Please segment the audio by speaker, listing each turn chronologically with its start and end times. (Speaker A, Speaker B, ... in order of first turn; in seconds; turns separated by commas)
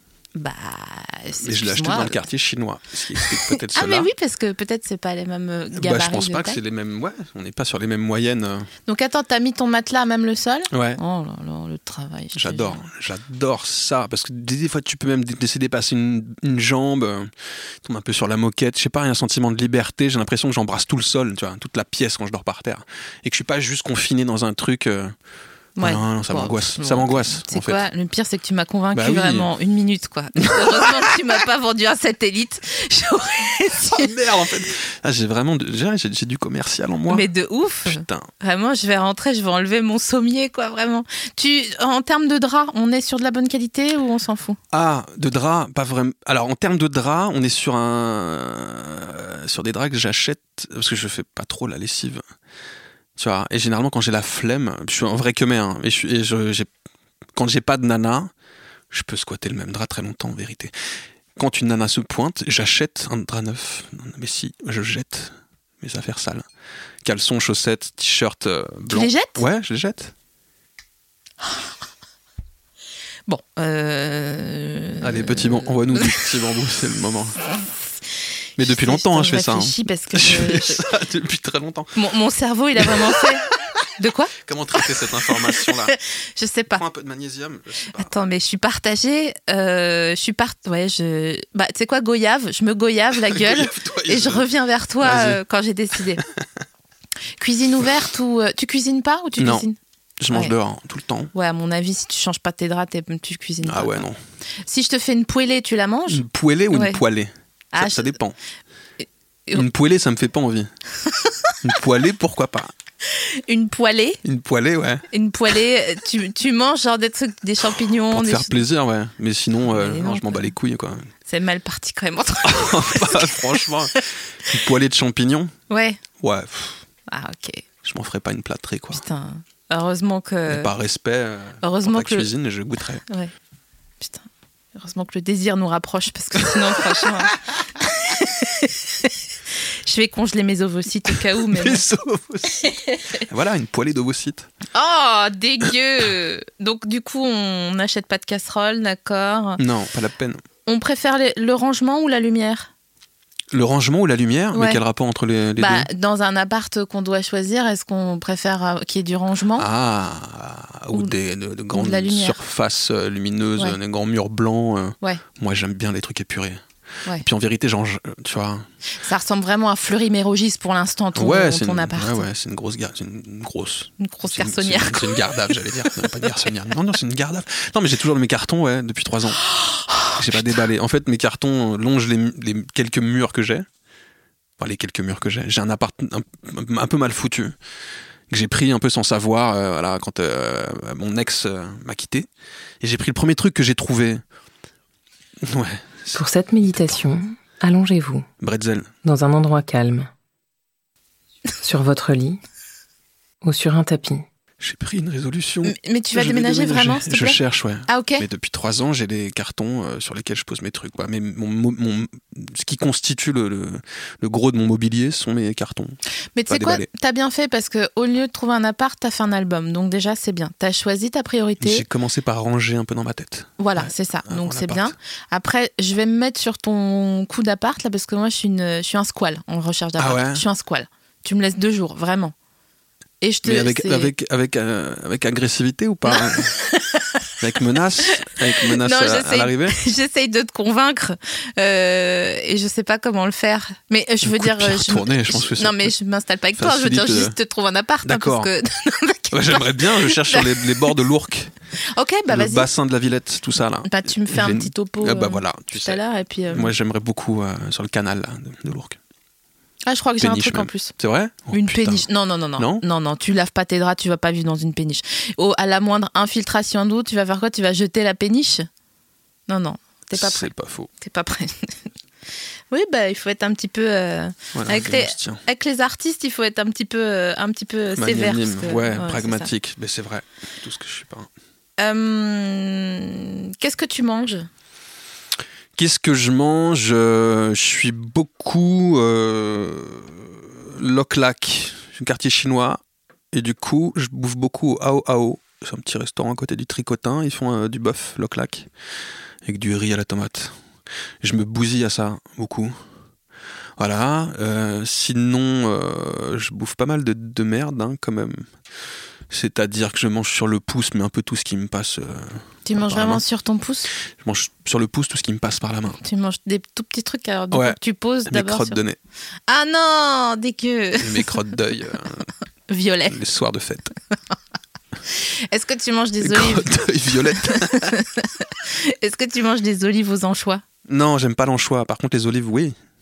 Speaker A: 0.3-2.3, Speaker B: 1.4-4.1, Speaker A: 3.1-6.6, Speaker B: 5.8-8.7, Speaker A: 8.9-12.8, Speaker B: 10.7-11.0, Speaker B: 12.3-25.1, Speaker A: 25.8-34.1, Speaker B: 25.8-27.8, Speaker B: 28.9-29.5, Speaker B: 30.4-31.1, Speaker B: 33.8-37.3, Speaker A: 37.1-44.6, Speaker B: 37.9-38.3, Speaker B: 44.7-52.2, Speaker B: 53.2-56.7, Speaker B: 57.4-58.3, Speaker B: 58.9-66.5, Speaker B: 67.0-70.1, Speaker A: 68.9-69.5, Speaker A: 73.3-76.3, Speaker B: 75.0-77.4, Speaker B: 78.6-82.0, Speaker A: 78.6-80.8, Speaker A: 82.0-86.8, Speaker B: 82.8-83.2, Speaker B: 84.4-86.0, Speaker B: 86.7-88.1, Speaker A: 88.0-96.2, Speaker B: 93.2-94.5, Speaker B: 95.0-95.4, Speaker B: 96.2-96.4, Speaker A: 97.4-99.8, Speaker B: 99.4-99.7, Speaker B: 100.2-101.3, Speaker A: 101.3-104.0, Speaker B: 103.6-104.2, Speaker A: 104.7-107.0, Speaker B: 106.1-108.4, Speaker A: 107.7-108.1, Speaker B: 109.5-110.7, Speaker A: 111.2-111.5, Speaker B: 111.6-112.7, Speaker A: 113.1-114.2, Speaker B: 114.2-115.1, Speaker A: 115.1-118.6, Speaker B: 118.1-121.1, Speaker A: 119.6-120.5, Speaker A: 121.3-124.0, Speaker B: 122.4-125.5, Speaker A: 125.7-126.0, Speaker B: 126.2-126.8, Speaker A: 127.1-127.6, Speaker B: 127.8-129.0, Speaker A: 128.9-130.7, Speaker B: 130.5-133.0, Speaker A: 131.6-132.3, Speaker A: 134.0-139.2, Speaker B: 136.4-137.3, Speaker A: 139.9-141.8, Speaker B: 141.3-144.5, Speaker A: 144.7-149.6, Speaker B: 149.6-150.4, Speaker A: 150.7-152.7, Speaker B: 153.5-155.9, Speaker A: 154.5-154.8, Speaker A: 155.6-159.7, Speaker B: 159.6-166.6, Speaker A: 161.7-162.4, Speaker B: 167.2-168.7, Speaker A: 169.0-172.3, Speaker B: 171.2-179.5, Speaker A: 174.0-176.1, Speaker A: 179.4-180.5, Speaker B: 180.2-183.7, Speaker B: 184.6-187.6, Speaker B: 188.3-192.3, Speaker B: 192.8-194.2, Speaker B: 195.4-197.0, Speaker C: 196.2-198.3, Speaker B: 198.4-198.9, Speaker C: 199.0-200.1, Speaker C: 201.6-202.4, Speaker C: 203.4-204.2, Speaker B: 204.6-216.9, Speaker A: 205.6-208.3, Speaker A: 216.4-221.8, Speaker B: 221.6-224.9, Speaker A: 223.6-232.3, Speaker B: 230.0-230.4, Speaker A: 233.2-234.1, Speaker B: 233.4-236.6, Speaker A: 236.1-237.1, Speaker B: 237.4-239.8, Speaker A: 238.1-250.9, Speaker B: 244.2-245.9, Speaker B: 246.6-247.4, Speaker B: 248.0-248.5, Speaker B: 249.3-251.5, Speaker A: 251.9-252.7, Speaker B: 252.3-259.0, Speaker A: 253.8-256.7, Speaker A: 259.9-260.9, Speaker B: 260.2-262.1, Speaker A: 261.5-268.7, Speaker B: 262.6-262.8, Speaker A: 269.5-271.7, Speaker B: 270.1-270.9, Speaker A: 272.7-279.5, Speaker B: 274.5-275.4, Speaker B: 277.9-281.3, Speaker A: 281.8-284.5, Speaker B: 285.8-292.8, Speaker B: 293.3-298.7, Speaker B: 299.4-300.6, Speaker B: 301.2-302.8, Speaker B: 303.8-308.5, Speaker B: 309.3-313.2, Speaker A: 312.7-313.9, Speaker B: 314.1-316.0, Speaker A: 316.0-318.8, Speaker B: 317.5-319.0, Speaker A: 319.5-321.4, Speaker B: 321.0-322.3, Speaker A: 322.7-323.2, Speaker B: 323.1-323.9, Speaker A: 325.1-326.7, Speaker B: 326.2-327.9, Speaker A: 327.4-330.6, Speaker B: 330.9-332.8